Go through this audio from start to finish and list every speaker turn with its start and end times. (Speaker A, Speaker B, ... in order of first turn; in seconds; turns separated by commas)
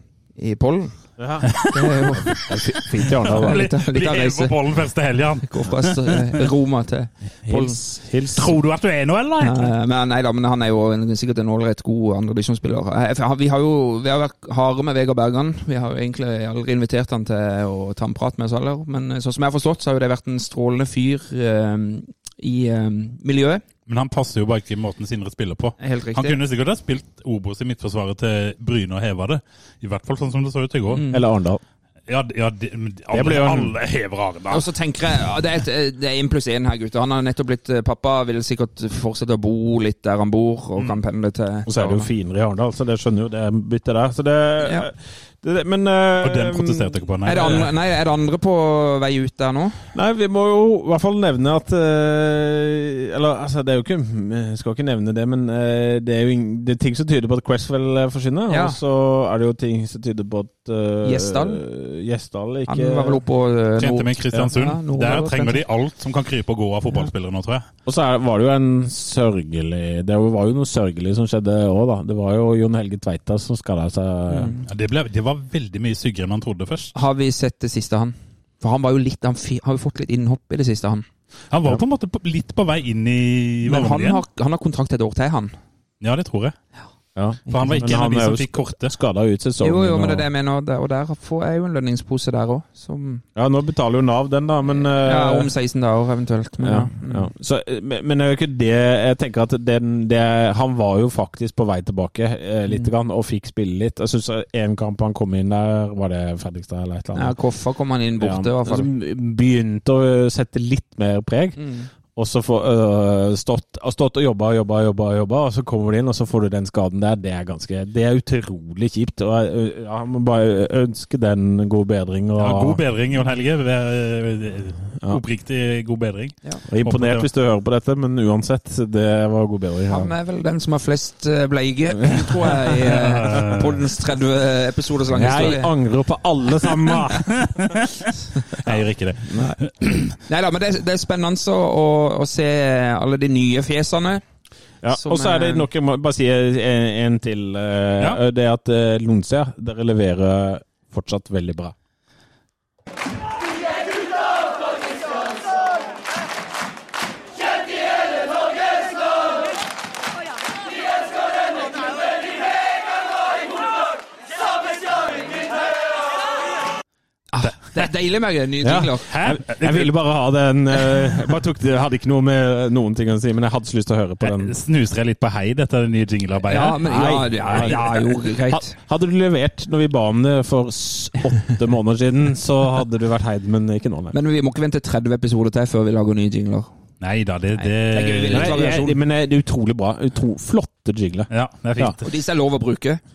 Speaker A: 0.4-0.9, Speaker B: 1.2-3.6, Speaker A: 1.6-4.5, Speaker C: 3.3-6.4, Speaker A: 5.4-7.8, Speaker B: 7.5-8.5, Speaker C: 8.3-9.7, Speaker A: 9.4-23.6, Speaker C: 23.9-31.0, Speaker A: 25.8-26.4, Speaker A: 30.9-31.2, Speaker B: 31.1-31.6, Speaker C: 32.1-34.7, Speaker B: 33.1-33.7, Speaker A: 34.5-42.1, Speaker B: 41.7-46.9, Speaker A: 44.6-44.9, Speaker C: 46.2-47.7, Speaker A: 47.2-49.8, Speaker B: 49.9-63.2, Speaker A: 58.5-58.8, Speaker A: 61.0-61.6, Speaker A: 62.7-65.6, Speaker C: 63.8-67.6, Speaker B: 67.8-74.5, Speaker A: 74.3-74.6, Speaker C: 74.7-76.9, Speaker A: 76.9-81.0, Speaker C: 81.5-84.2, Speaker A: 83.7-85.5, Speaker C: 86.0-86.5, Speaker B: 87.2-90.2, Speaker A: 87.5-87.7, Speaker C: 87.5-88.9, Speaker A: 89.6-93.2, Speaker B: 93.3-95.5, Speaker A: 94.7-97.3, Speaker B: 96.6-107.3, Speaker A: 107.1-108.9, Speaker B: 108.2-111.6, Speaker A: 111.6-111.9, Speaker B: 112.1-122.8, Speaker C: 122.4-127.2, Speaker B: 126.7-130.1, Speaker A: 129.9-135.7, Speaker C: 132.9-133.8, Speaker B: 135.1-137.5, Speaker C: 137.3-140.1, Speaker A: 140.2-144.2, Speaker B: 144.8-151.7, Speaker A: 144.9-145.7, Speaker A: 167.3-169.1, Speaker C: 167.4-167.9, Speaker B: 168.6-174.5, Speaker C: 169.1-169.9, Speaker C: 174.2-178.0, Speaker A: 176.5-178.8, Speaker B: 176.8-177.8, Speaker B: 178.5-184.1, Speaker A: 184.1-186.7, Speaker C: 187.0-188.6, Speaker A: 187.6-189.0, Speaker B: 188.3-191.9, Speaker C: 191.3-192.0, Speaker A: 192.0-193.0